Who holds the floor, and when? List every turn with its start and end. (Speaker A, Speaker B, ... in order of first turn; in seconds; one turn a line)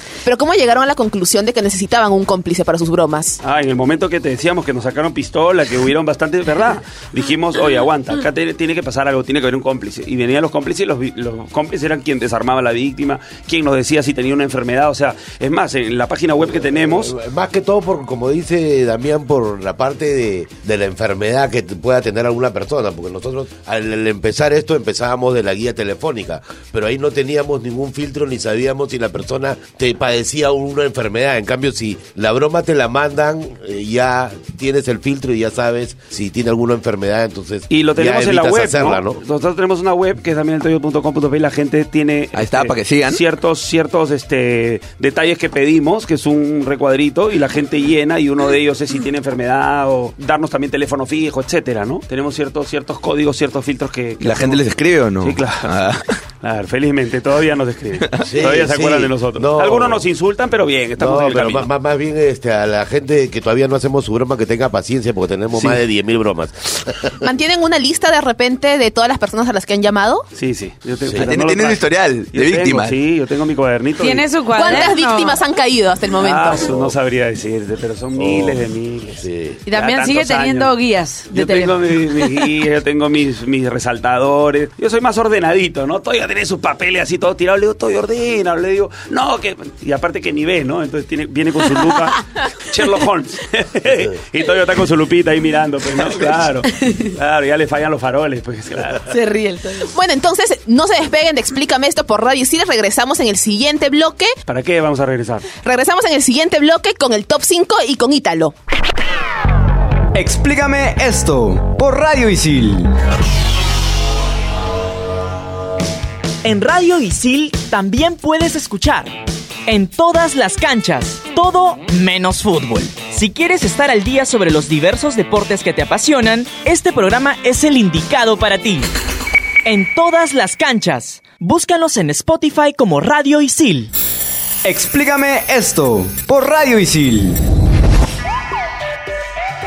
Speaker A: 0.2-3.4
Speaker B: 3.4-17.1
Speaker C: 16.4-39.2
Speaker B: 37.7-54.6
Speaker D: 42.3-43.2
Speaker D: 54.2-56.1
Speaker B: 55.2-55.7
Speaker B: 56.4-61.7
Speaker D: 58.0-58.3
Speaker C: 58.2-60.1
Speaker C: 61.0-67.2
Speaker B: 65.5-65.8
Speaker A: 67.2-70.2
Speaker B: 70.3-74.9
Speaker C: 71.0-71.3
Speaker D: 71.2-72.9
Speaker E: 74.0-75.4
Speaker A: 74.5-76.7
Speaker B: 76.2-80.7
Speaker C: 76.5-76.9
Speaker C: 78.1-79.6
Speaker E: 79.7-82.3
Speaker B: 81.3-99.1
Speaker E: 96.8-97.1
Speaker E: 99.1-99.9
Speaker A: 99.9-104.3
Speaker B: 104.5-105.5
Speaker A: 105.6-108.5
Speaker F: 110.1-112.9
Speaker G: 116.4-128.9
Speaker G: 129.6-133.9
Speaker F: 134.6-137.4